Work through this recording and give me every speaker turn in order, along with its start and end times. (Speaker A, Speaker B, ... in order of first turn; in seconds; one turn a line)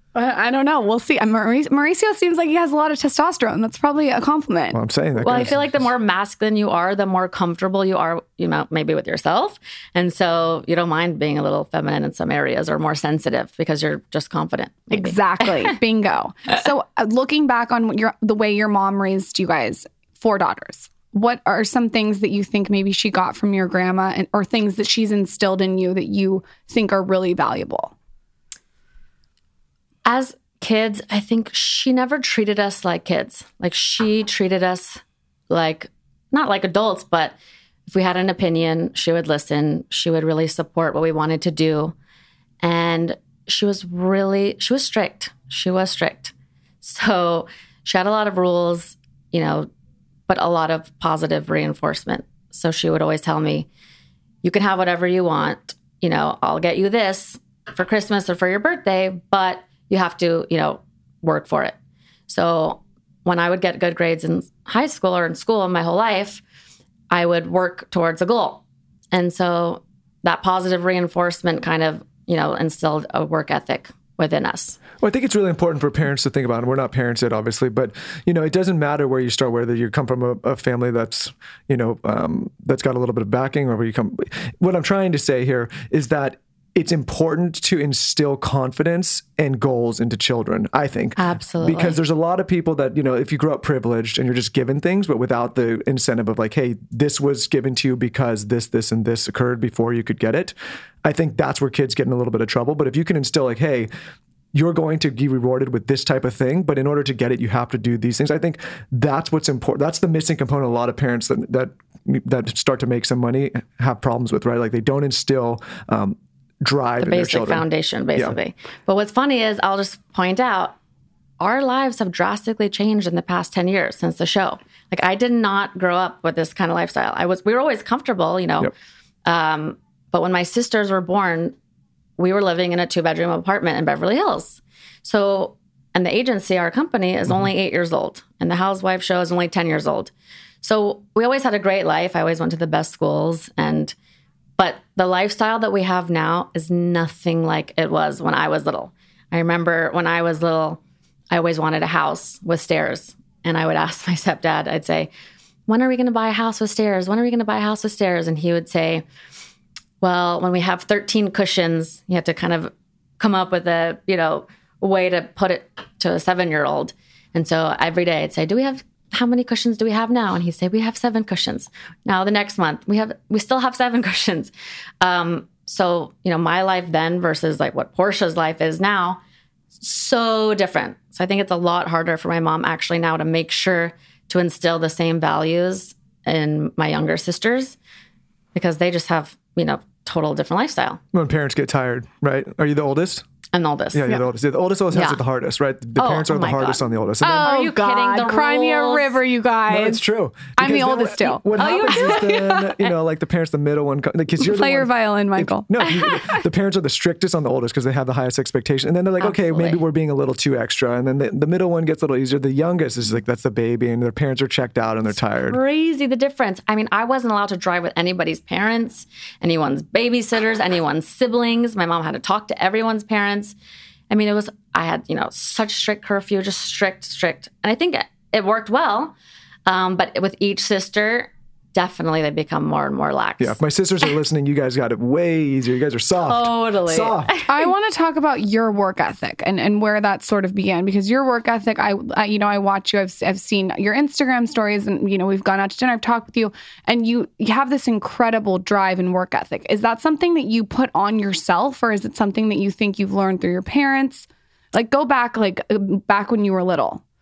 Speaker A: 0.1-4.8
Speaker B: 4.7-5.7
Speaker C: 5.2-15.7
Speaker A: 14.9-27.9
Speaker C: 30.1-37.4
Speaker C: 37.9-42.0
Speaker C: 42.6-49.7
Speaker C: 50.3-53.7
Speaker C: 54.4-61.8
Speaker C: 62.3-66.4
Speaker C: 67.1-74.8
Speaker B: 75.0-103.9
Speaker C: 91.2-92.0
Speaker B: 104.5-118.4
Speaker C: 117.0-120.8
Speaker C: 121.4-128.7
Speaker C: 129.3-131.6
Speaker C: 132.2-143.9
Speaker C: 144.6-150.8
Speaker C: 151.3-155.1
Speaker C: 155.7-159.1
Speaker C: 160.0-179.2
Speaker C: 179.8-187.8
Speaker C: 188.5-191.0
Speaker B: 191.1-193.2
Speaker C: 193.5-194.1
Speaker B: 193.9-197.6
Speaker C: 194.9-195.2
Speaker C: 196.0-199.2
Speaker A: 197.2-200.0
Speaker B: 199.7-215.6
Speaker A: 200.6-202.6
Speaker C: 201.6-202.9
Speaker A: 204.4-205.8
Speaker C: 209.2-209.8
Speaker C: 215.3-223.6
Speaker C: 224.1-229.2
Speaker C: 229.7-233.6
Speaker B: 233.4-237.3
Speaker C: 236.2-237.5
Speaker A: 237.5-257.0